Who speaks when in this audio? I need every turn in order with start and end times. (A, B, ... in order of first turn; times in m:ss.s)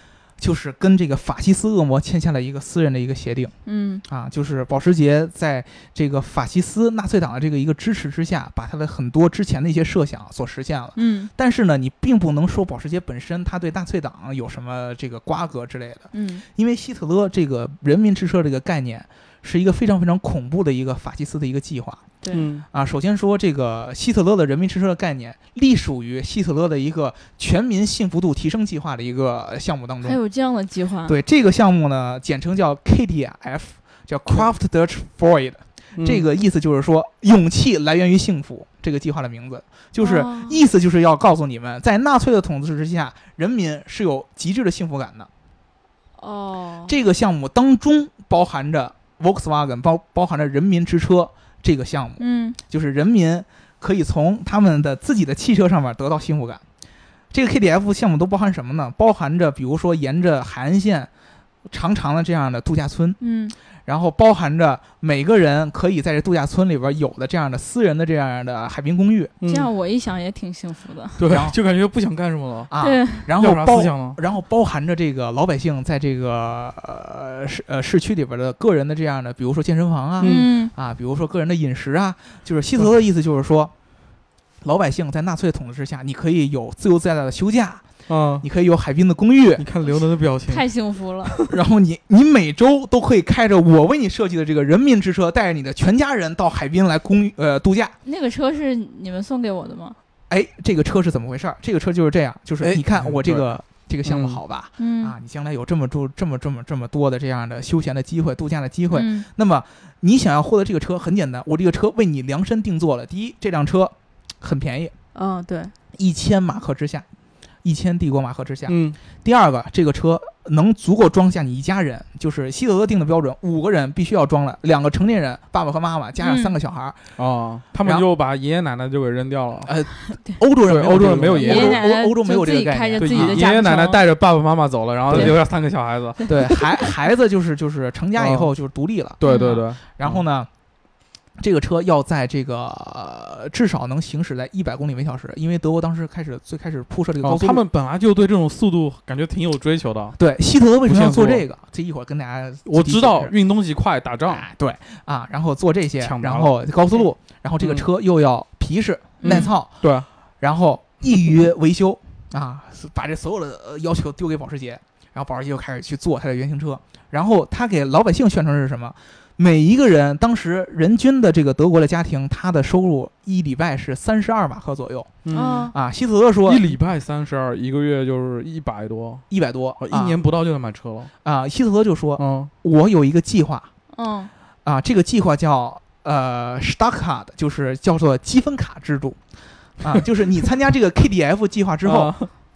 0:00.4-0:03.5 A
0:03.6-0:04.0 B
0:04.1-0:22.0 A
0:11.0-0:11.3 B
0:16.1-0:16.4 B
0:22.3-0:22.6 C
0:22.7-0:30.2 A
0:30.0-0:31.2 B
0:31.0-0:45.3 A
0:36.0-0:36.2 C
0:40.0-0:40.6 B
0:46.2-0:46.9 B
0:46.9-0:56.6 A
0:52.2-0:52.6 B
0:57.3-1:01.1 A
1:01.7-1:03.2 A
1:03.2-1:03.5 B
1:03.8-1:09.3 A
1:09.4-1:09.7 C
1:09.4-1:11.2 B
1:11.2-1:12.7 C
1:11.2-1:11.6 A
1:12.7-1:23.7 A
1:12.8-1:13.3 B
1:13.3-1:14.2 C
1:20.2-1:20.5 C
1:20.2-1:20.7 B
1:24.6-1:27.8 A
1:28.1-1:28.4 C
1:28.4-1:29.6 A
1:29.6-1:30.7 C
1:30.5-1:31.3 B
1:31.2-1:31.5 C
1:31.5-1:37.9 A
1:38.0-1:40.0 B
1:40.3-1:54.9 A
1:42.6-1:43.5 C
1:44.0-1:44.4 C
1:44.8-1:45.1 B
1:48.9-1:49.3 B
1:55.1-1:55.7 B
1:55.9-1:57.0 A
1:57.6-2:07.1 A
1:58.7-1:59.0 C
2:06.2-2:06.6 B
2:07.2-2:09.7 C
2:09.6-2:13.4 A
2:10.6-2:11.8 C
2:11.4-2:14.0 B
2:13.0-2:16.7 C
2:15.1-2:15.4 A
2:15.1-2:15.4 B
2:16.3-2:19.2 A
2:18.2-2:18.5 C
2:19.2-2:20.2 C
2:19.2-2:19.6 B
2:19.9-2:20.5 A
2:21.4-2:27.6 A
2:27.2-2:30.2 C
2:30.2-2:33.3 A
2:30.8-2:31.4 C
2:32.7-2:34.4 C
2:34.3-2:39.7 A
2:36.0-2:36.5 C
2:37.6-2:37.8 C
2:39.2-2:39.5 B
2:39.2-2:40.0 C
2:40.4-2:56.7 A
2:55.2-2:55.6 C
2:55.3-2:55.7 B
2:56.4-2:59.2 C
2:59.3-3:00.2 A
2:59.8-3:01.1 C
3:01.2-3:03.7 A
3:02.2-3:02.5 C
3:03.9-3:04.3 B
3:04.6-3:09.2 A
3:09.8-3:12.1 A
3:11.8-3:12.3 C